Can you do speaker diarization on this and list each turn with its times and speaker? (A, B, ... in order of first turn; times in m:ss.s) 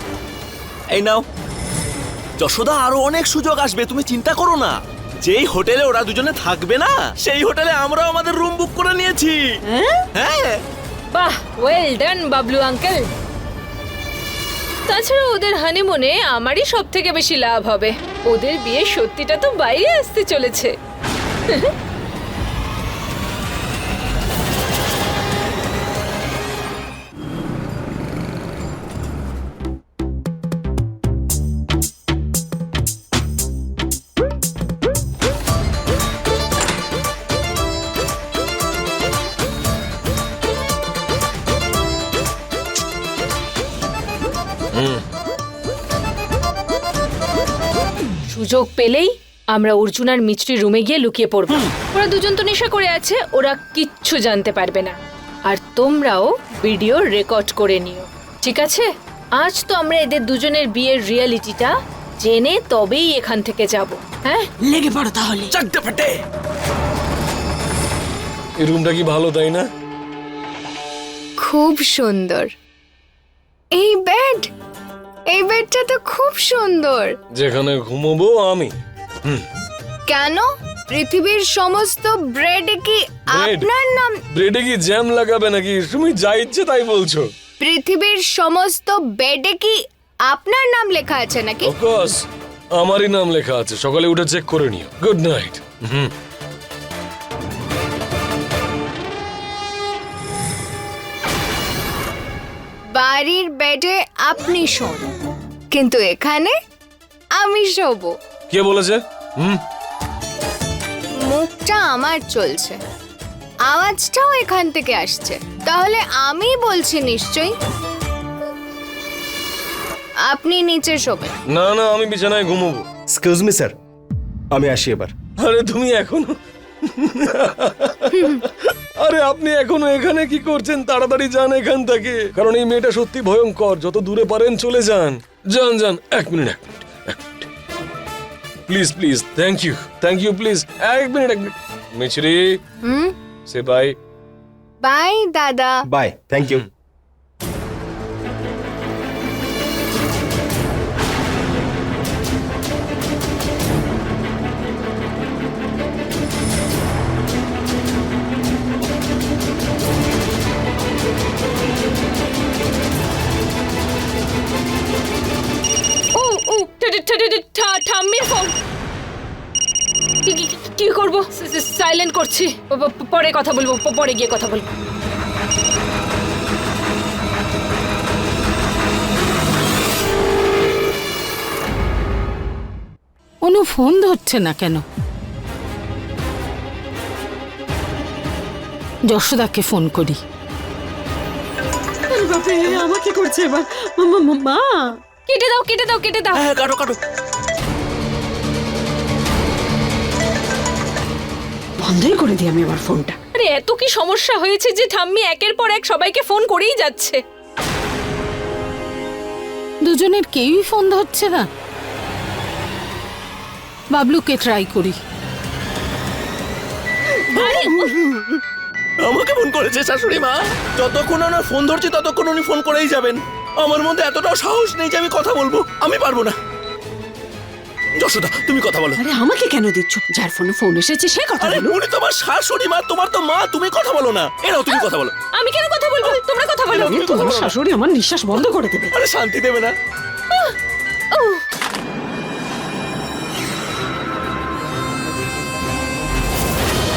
0:00.9-0:01.2 A
0:02.4-0:09.4 A
0:10.1-0:10.6 A
0:11.1-0:13.0 B
0:14.9-0:20.7 B
0:21.5-0:21.7 B
0:48.3-0:55.0 B
0:55.5-0:58.9 B
0:59.4-1:04.4 B
1:04.6-1:05.5 C
1:05.5-1:06.1 A
1:08.6-1:09.7 D
1:11.4-1:12.5 E
1:13.8-1:14.5 E
1:15.3-1:17.1 E
1:17.3-1:19.4 D
1:20.1-1:24.2 E
1:23.3-1:23.7 D
1:24.3-1:27.3 D
1:27.6-1:31.7 E
1:31.6-1:32.2 D
1:32.8-1:36.1 D
1:42.9-1:45.1 E
1:45.7-1:46.5 E
1:47.4-1:48.1 E
1:48.5-1:49.6 D
1:51.3-1:52.8 E
1:53.7-1:57.5 E
2:00.3-2:01.4 E
2:01.5-2:02.8 D
2:03.1-2:03.8 F
2:04.5-2:05.1 F
2:05.4-2:17.5 D
2:08.1-2:08.4 E
2:18.7-2:22.6 D
2:22.8-2:23.1 E
2:23.5-2:24.0 D
2:24.8-2:25.8 E
2:25.8-2:26.6 F
2:46.1-2:48.5 B
2:50.2-2:54.6 B
3:03.4-3:04.8 G
3:09.1-3:10.2 G
3:12.1-3:14.9 C
3:15.3-3:16.4 B
3:16.4-3:17.0 A
3:21.8-3:23.2 C
3:23.4-3:27.2 B
3:29.8-3:31.5 G
3:33.9-3:35.0 G
3:37.3-3:37.8 B
3:37.4-3:38.4 A
3:39.0-3:46.3 A
3:48.0-3:49.0 A
3:49.0-3:51.8 C
3:51.4-3:55.1 A
3:55.3-3:57.1 B
3:56.7-3:57.5 A
3:56.8-3:58.9 C
3:58.9-3:59.7 A
4:01.1-4:01.4 B